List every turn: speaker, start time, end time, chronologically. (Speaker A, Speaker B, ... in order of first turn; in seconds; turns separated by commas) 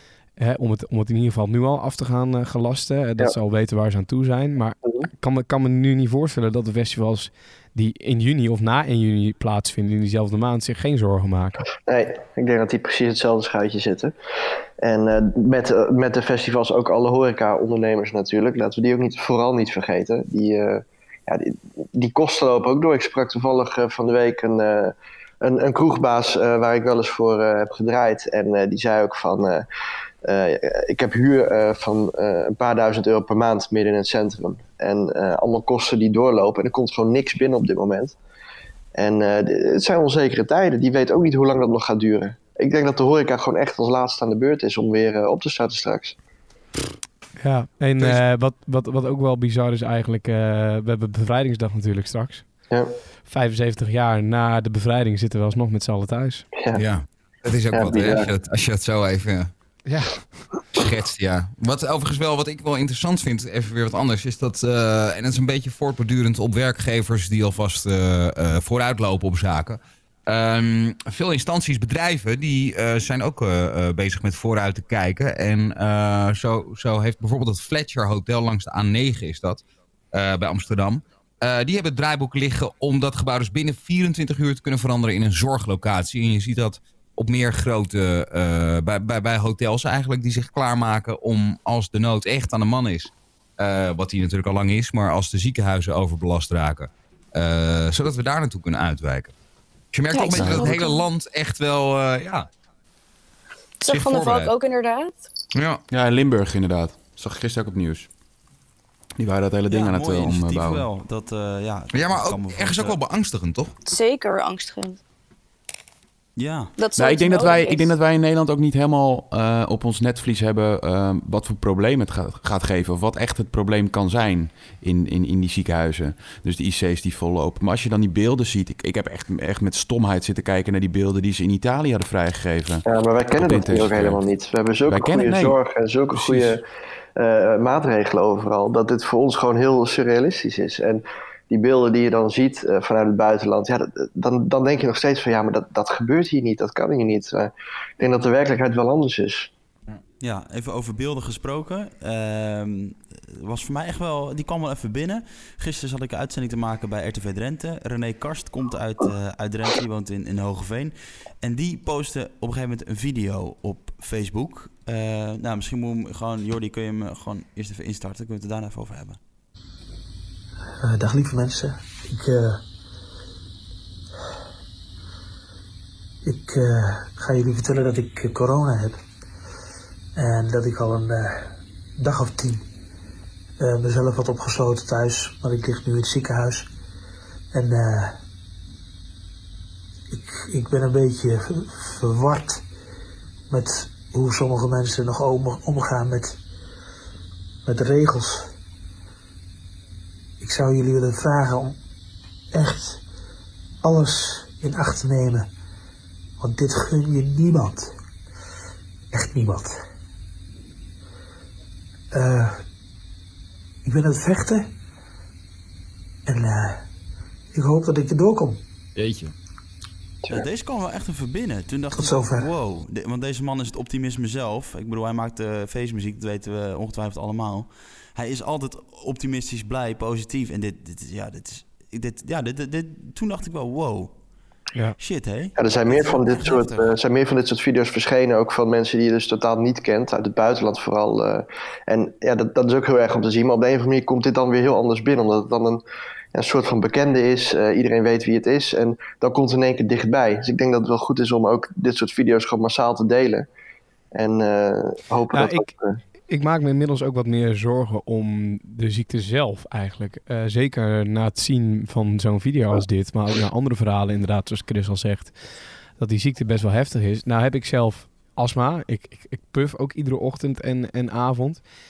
Speaker A: 0.3-11.6, Speaker B: 11.9-14.1, Speaker B: 14.8-29.6, Speaker B: 30.2-38.1, Speaker B: 38.9-46.1, Speaker A: 47.4-52.6, Speaker B: 52.7-52.9, Speaker A: 53.2-56.5, Speaker B: 56.5-56.8, Speaker C: 56.7-59.5, Speaker B: 57.7-58.3, Speaker A: 59.9-60.5, Speaker C: 60.7-99.3, Speaker C: 99.9-102.5, Speaker D: 100.1-101.0, Speaker E: 100.3-100.7, Speaker D: 103.8-105.2, Speaker C: 103.9-104.5, Speaker C: 105.5-105.8, Speaker E: 105.9-108.1, Speaker E: 109.2-110.8, Speaker F: 109.7-113.0, Speaker C: 111.9-113.7, Speaker D: 113.8-115.0, Speaker F: 116.3-116.7, Speaker D: 116.8-117.9, Speaker E: 117.0-134.2, Speaker B: 132.8-136.6, Speaker E: 134.9-135.6, Speaker E: 136.1-136.6, Speaker B: 137.2-149.5, Speaker F: 150.2-169.2, Speaker G: 170.8-172.6, Speaker G: 176.2-179.0, Speaker G: 180.2-182.6, Speaker G: 183.6-186.7, Speaker G: 187.5-188.2, Speaker G: 190.1-192.6, Speaker G: 193.5-196.4, Speaker G: 197.6-198.5, Speaker G: 200.4-201.8, Speaker G: 202.5-203.0, Speaker G: 203.8-205.5, Speaker G: 206.4-207.9, Speaker G: 209.1-209.7, Speaker G: 212.1-212.6, Speaker G: 213.8-214.7, Speaker G: 216.3-216.8, Speaker G: 217.5-218.6, Speaker C: 218.9-219.3, Speaker F: 220.3-234.1, Speaker G: 221.9-222.5, Speaker F: 235.0-236.9, Speaker B: 235.6-245.8, Speaker B: 246.3-253.5, Speaker B: 254.1-256.0, Speaker A: 255.3-271.6